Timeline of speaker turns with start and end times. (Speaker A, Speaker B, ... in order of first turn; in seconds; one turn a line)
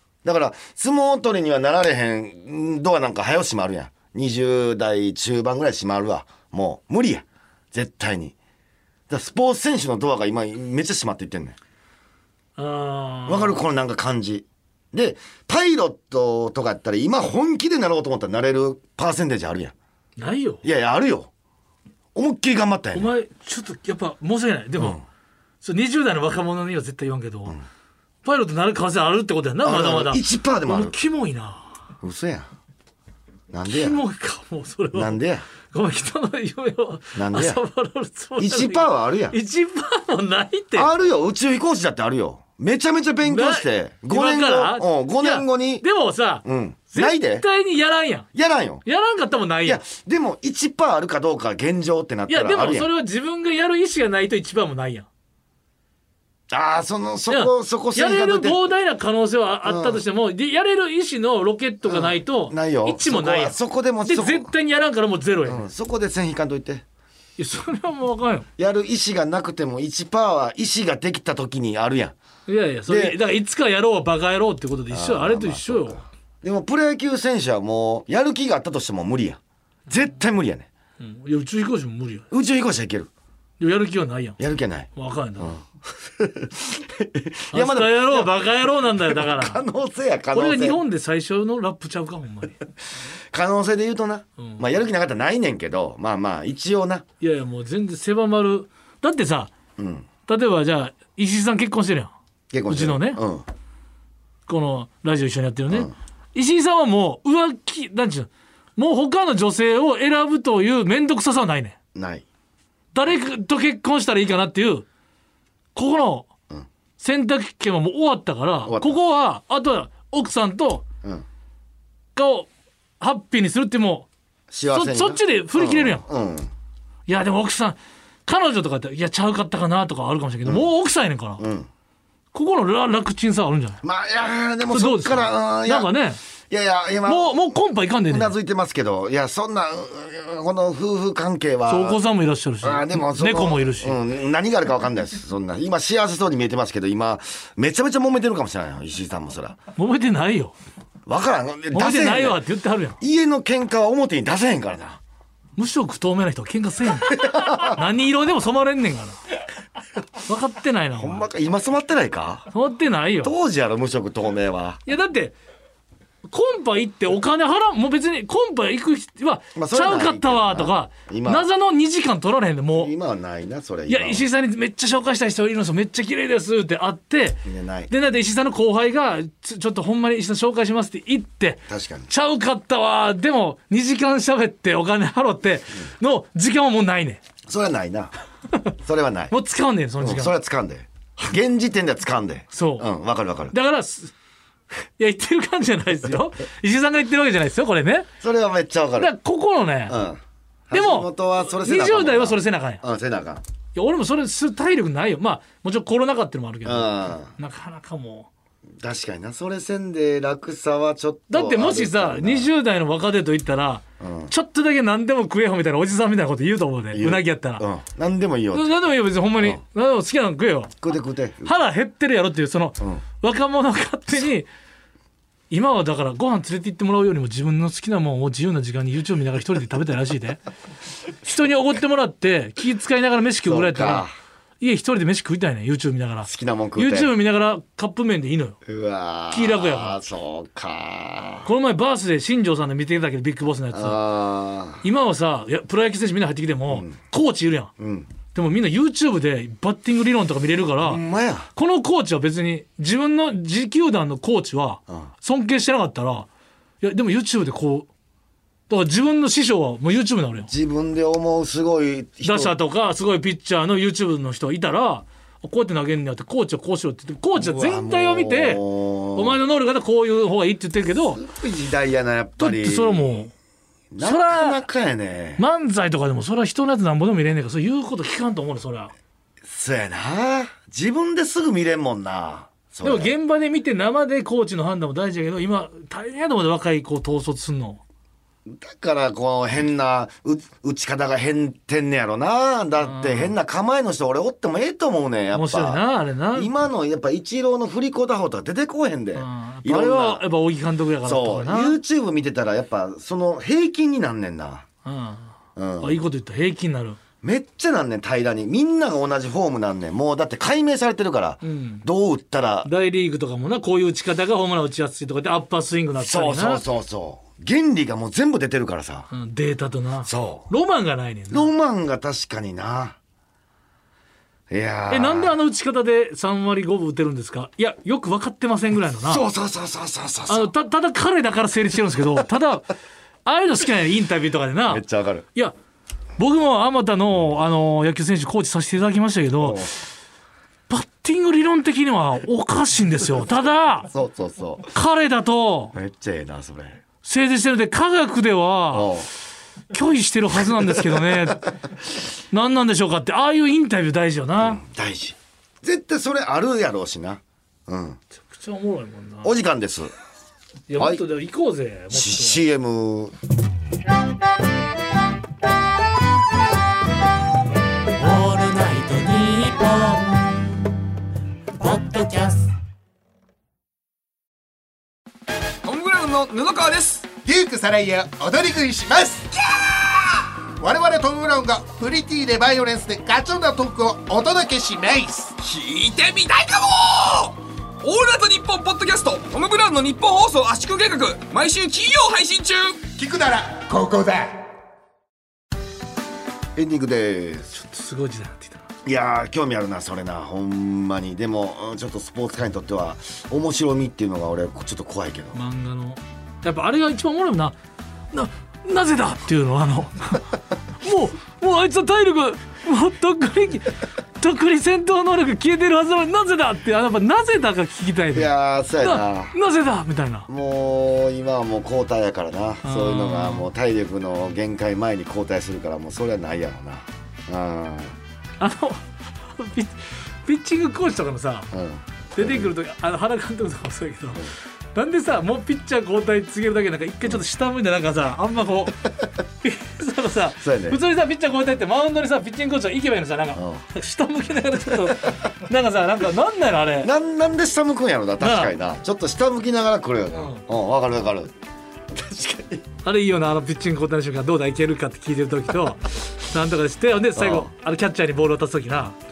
Speaker A: 0.2-8.3
Speaker A: 9.1-11.6
Speaker B: 12.6-13.6
Speaker A: 13.3-19.7
Speaker B: 20.2-20.6
Speaker A: 20.6-21.3
Speaker A: 22.1-23.1
Speaker B: 22.9-25.0
Speaker A: 24.8-25.0
Speaker B: 25.6-27.6
Speaker B: 28.2-31.7
Speaker A: 29.6-30.9
Speaker A: 32.0-32.5
Speaker A: 33.5-34.0
Speaker B: 33.7-35.2
Speaker A: 34.9-35.4
Speaker B: 35.7-40.9
Speaker A: 37.1-37.6
Speaker A: 38.4-39.3
Speaker A: 40.7-45.8
Speaker B: 43.2-48.3
Speaker A: 46.4-47.4
Speaker A: 48.3-48.8
Speaker B: 48.8-49.8
Speaker A: 49.6-52.9
Speaker B: 52.3-55.1
Speaker A: 56.5-58.6
Speaker B: 57.3-65.6
Speaker A: 59.6-60.0
Speaker A: 61.9-64.5
Speaker A: 65.4-66.8
Speaker B: 67.4-68.5
Speaker A: 68.6-72.1
Speaker B: 72.5-76.0
Speaker A: 72.9-73.2
Speaker A: 74.9-80.7
Speaker B: 81.0-82.2
Speaker A: 82.3-83.1
Speaker B: 83.6-84.4
Speaker A: 84.4-90.8
Speaker B: 84.9-85.6
Speaker B: 87.5-89.6
Speaker B: 90.3-92.6
Speaker A: 93.3-97.0
Speaker B: 94.4-94.6
Speaker B: 97.2-99.5
Speaker A: 99.8-100.1
Speaker B: 100.3-102.1
Speaker A: 102.5-103.5
Speaker B: 102.7-103.2
Speaker B: 104.5-111.8
Speaker A: 111.9-112.2
Speaker B: 112.9-114.8
Speaker B: 115.7-116.3
Speaker B: 117.0-120.8
Speaker A: 118.7-119.0
Speaker B: 122.1-122.5
Speaker B: 123.0-124.1
Speaker A: 124.5-126.5
Speaker B: 124.7-126.0
Speaker B: 127.1-131.4
Speaker A: 131.4-131.7
Speaker B: 132.3-133.8
Speaker A: 133.8-135.9
Speaker B: 134.7-136.2
Speaker A: 136.5-137.3
Speaker B: 137.1-138.3
Speaker A: 138.1-142.0
Speaker B: 141.7-144.0
Speaker A: 142.6-149.6
Speaker B: 149.8-150.5
Speaker A: 151.1-152.4
Speaker B: 151.7-153.0
Speaker A: 153.0-155.0
Speaker B: 155.6-159.2
Speaker A: 157.1-157.8
Speaker B: 160.2-161.3
Speaker A: 161.0-162.5
Speaker B: 162.5-163.3
Speaker A: 163.2-164.8
Speaker B: 164.8-165.3
Speaker B: 166.3-172.9
Speaker A: 169.5-171.5
Speaker A: 172.7-174.2
Speaker B: 173.9-187.2
Speaker A: 177.4-177.9
Speaker A: 181.7-182.1
Speaker A: 187.5-188.1
Speaker A: 188.8-189.3
Speaker B: 189.3-190.3
Speaker A: 190.0-193.5
Speaker B: 192.5-192.9
Speaker B: 193.5-194.1
Speaker B: 195.0-198.1
Speaker A: 198.2-199.1
Speaker B: 199.0-200.0
Speaker A: 199.9-203.4
Speaker B: 200.7-202.8
Speaker B: 203.7-208.3
Speaker A: 206.6-207.3
Speaker A: 208.8-212.5
Speaker B: 211.3-217.6
Speaker A: 214.0-214.3
Speaker A: 216.9-218.7
Speaker B: 218.5-220.7
Speaker A: 220.8-221.5
Speaker B: 221.4-224.5
Speaker B: 225.5-230.4
Speaker B: 231.2-234.1
Speaker A: 233.4-234.1
Speaker B: 234.6-238.6
Speaker A: 236.2-237.1
Speaker A: 238.6-241.5
Speaker B: 239.3-240.0
Speaker B: 241.4-244.0
Speaker A: 243.7-244.8
Speaker B: 244.8-247.7
Speaker A: 246.7-246.9
Speaker A: 247.8-248.1
Speaker B: 248.3-251.0
Speaker A: 250.8-251.5
Speaker B: 251.5-256.3
Speaker B: 256.8-257.9
Speaker B: 258.7-260.5
Speaker A: 260.5-262.5
Speaker B: 262.2-268.6
Speaker A: 267.3-269.4
Speaker B: 269.1-271.2
Speaker A: 271.0-273.1
Speaker B: 272.4-273.3
Speaker A: 273.9-275.4
Speaker B: 274.0-274.6
Speaker B: 275.4-278.9
Speaker A: 279.4-283.1
Speaker B: 282.8-287.8
Speaker A: 288.4-295.8
Speaker B: 292.8-293.3
Speaker B: 295.3-296.5
Speaker A: 296.3-300.2
Speaker B: 299.1-301.8
Speaker A: 301.0-304.6
Speaker B: 304.8-307.0
Speaker A: 305.6-306.0
Speaker A: 307.2-312.7
Speaker B: 311.4-311.8
Speaker B: 312.6-316.6
Speaker A: 316.0-319.1
Speaker B: 319.1-321.5
Speaker A: 320.0-320.5
Speaker A: 321.3-323.0
Speaker A: 324.5-325.3
Speaker B: 324.9-329.2
Speaker A: 329.1-330.5
Speaker B: 330.3-332.7
Speaker B: 333.2-334.8
Speaker A: 334.7-335.2
Speaker B: 336.2-339.7
Speaker A: 339.4-339.8
Speaker B: 340.7-343.9
Speaker A: 343.9-344.7
Speaker B: 344.7-345.7
Speaker A: 345.7-346.8
Speaker B: 347.0-348.9
Speaker A: 348.7-349.1
Speaker B: 349.7-351.5
Speaker A: 350.5-351.3
Speaker B: 352.3-354.6
Speaker A: 354.4-358.0
Speaker B: 358.2-359.3
Speaker A: 359.2-359.9
Speaker B: 360.7-362.4
Speaker A: 361.9-363.1
Speaker B: 368.0-370.1
Speaker C: 368.3-369.9
Speaker C: 371.8-372.3
Speaker D: 375.6-377.1
Speaker E: 377.2-379.3
Speaker D: 379.3-380.3
Speaker E: 380.6-385.3
Speaker D: 385.4-392.9
Speaker E: 392.9-394.4
Speaker A: 396.5-397.5
Speaker B: 397.5-398.6
Speaker A: 398.8-405.4
Speaker B: 405.3-407.6
Speaker B: 408.1-420.3
Speaker A: 418.1-419.3
Speaker A: 420.3-427.9
Speaker B: 422.6-423.5
Speaker B: 428.4-431.5
Speaker A: 431.5-432.5
Speaker B: 432.1-438.8
Speaker B: 439.4-446.9
Speaker A: 440.4-440.8
Speaker A: 443.3-443.6
Speaker A: 446.8-451.3
Speaker B: 448.2-448.5
Speaker B: 450.1-450.4
Speaker A: 451.9-452.6
Speaker B: 452.8-458.9
Speaker A: 457.1-457.5